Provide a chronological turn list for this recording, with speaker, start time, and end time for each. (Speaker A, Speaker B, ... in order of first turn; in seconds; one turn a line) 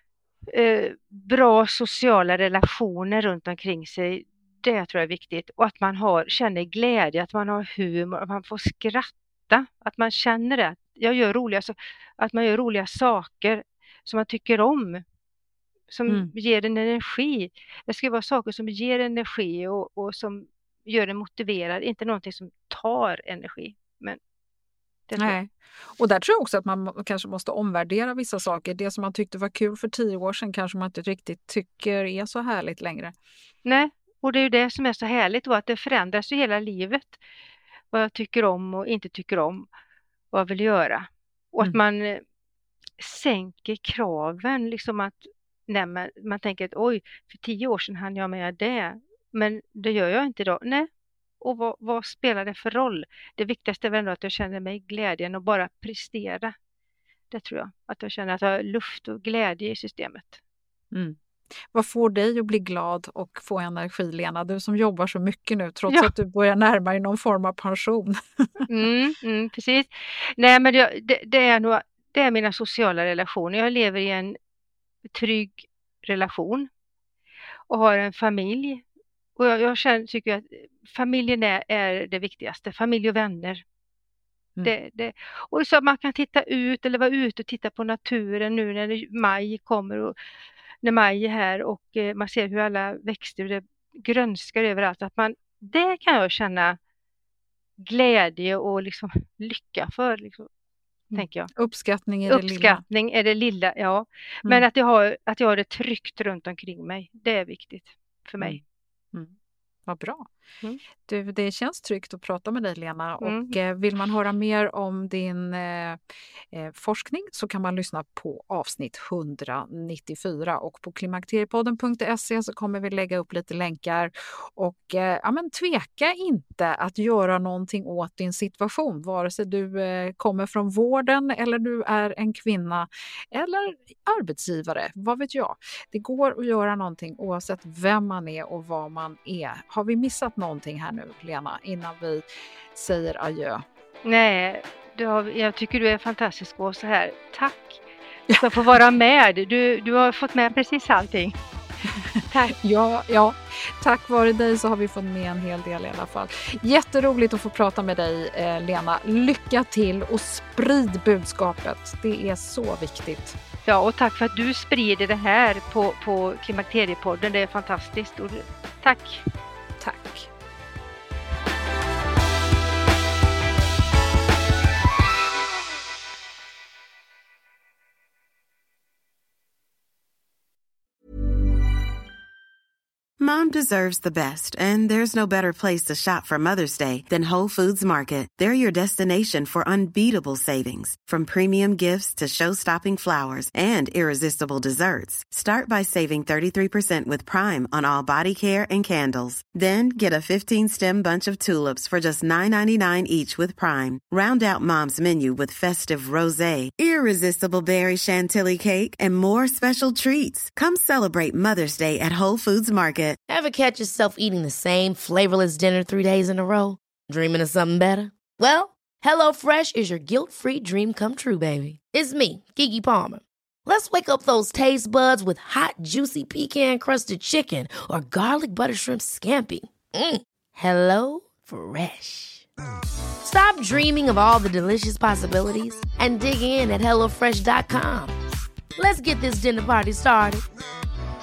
Speaker A: 0.5-15.0
Speaker A: 15.9-24.2
Speaker A: 25.1-25.4
Speaker B: 25.2-33.1
Speaker A: 33.6-37.2
Speaker A: 37.9-39.7
Speaker A: 40.3-42.2
Speaker A: 43.0-50.9
Speaker A: 51.4-56.5
Speaker A: 57.3-60.4
Speaker B: 61.7-68.7
Speaker A: 68.7-74.4
Speaker A: 75.1-76.7
Speaker A: 77.7-78.8
Speaker A: 79.4-83.6
Speaker A: 84.6-90.2
Speaker A: 90.8-96.8
Speaker A: 97.8-100.5
Speaker A: 101.1-101.5
Speaker B: 101.2-102.8
Speaker A: 102.3-108.6
Speaker B: 109.9-110.3
Speaker B: 111.1-116.0
Speaker A: 113.2-113.6
Speaker B: 116.5-143.6
Speaker A: 144.1-151.4
Speaker B: 148.3-148.6
Speaker B: 151.9-163.4
Speaker A: 163.7-169.2
Speaker B: 169.8-170.3
Speaker C: 183.2-213.2
Speaker D: 213.3-232.5
Speaker D: 233.2-238.2
Speaker D: 238.8-240.4